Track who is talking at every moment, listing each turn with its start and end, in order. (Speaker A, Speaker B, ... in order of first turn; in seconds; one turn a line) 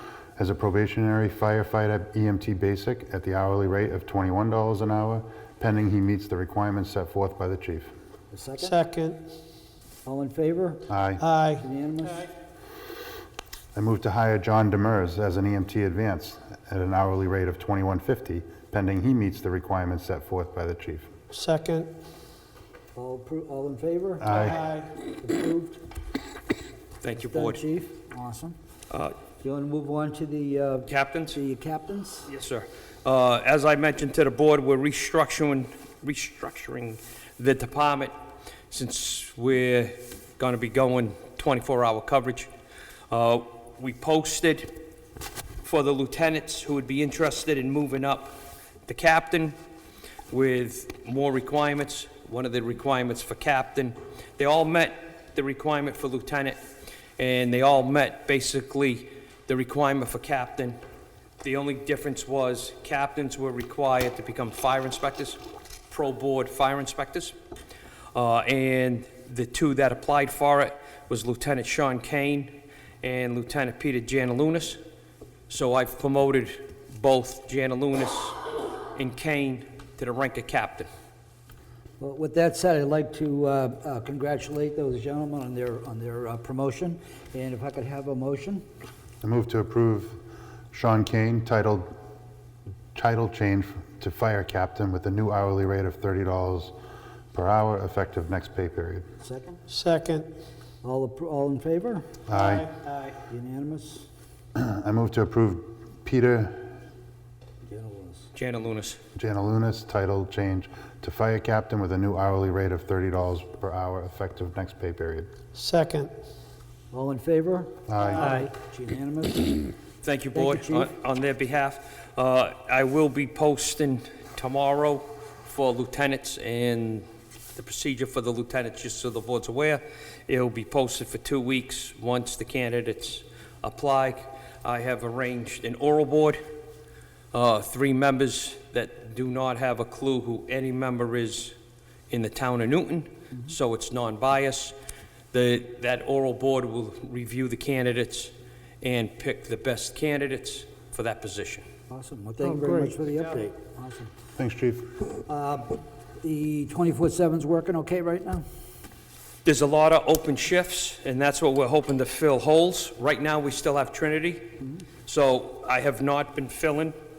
Speaker A: 0.4-7.9
Speaker B: 8.3-8.8
Speaker C: 8.6-9.2
Speaker B: 10.0-10.9
Speaker A: 10.9-11.2
Speaker C: 11.2-11.6
Speaker B: 11.6-12.3
Speaker A: 13.7-21.1
Speaker C: 21.3-21.9
Speaker B: 22.9-25.8
Speaker A: 24.2-24.6
Speaker C: 24.3-24.9
Speaker D: 27.0-27.6
Speaker B: 27.1-28.6
Speaker D: 28.9-29.1
Speaker B: 29.4-32.3
Speaker D: 30.9-31.4
Speaker D: 32.3-38.1
Speaker D: 38.7-42.5
Speaker D: 43.1-44.8
Speaker D: 45.6-49.5
Speaker D: 50.3-56.6
Speaker D: 57.2-60.8
Speaker D: 61.4-67.3
Speaker D: 68.1-74.8
Speaker D: 75.5-80.9
Speaker B: 82.0-88.6
Speaker A: 89.2-90.2
Speaker A: 90.7-91.9
Speaker A: 92.9-96.7
Speaker A: 97.3-99.0
Speaker B: 99.2-99.6
Speaker C: 99.7-100.3
Speaker B: 100.8-102.1
Speaker A: 102.3-102.7
Speaker C: 102.3-103.1
Speaker B: 103.3-104.1
Speaker A: 104.5-106.7
Speaker B: 107.6-108.3
Speaker D: 108.3-109.0
Speaker A: 109.1-115.3
Speaker C: 115.5-116.1
Speaker B: 116.9-119.7
Speaker A: 117.9-118.3
Speaker C: 118.1-118.5
Speaker D: 120.0-136.4
Speaker B: 120.3-120.9
Speaker D: 137.3-141.5
Speaker D: 142.1-144.7
Speaker D: 145.3-151.6
Speaker B: 151.9-154.1
Speaker A: 154.4-154.9
Speaker B: 155.2-158.4
Speaker D: 159.4-166.9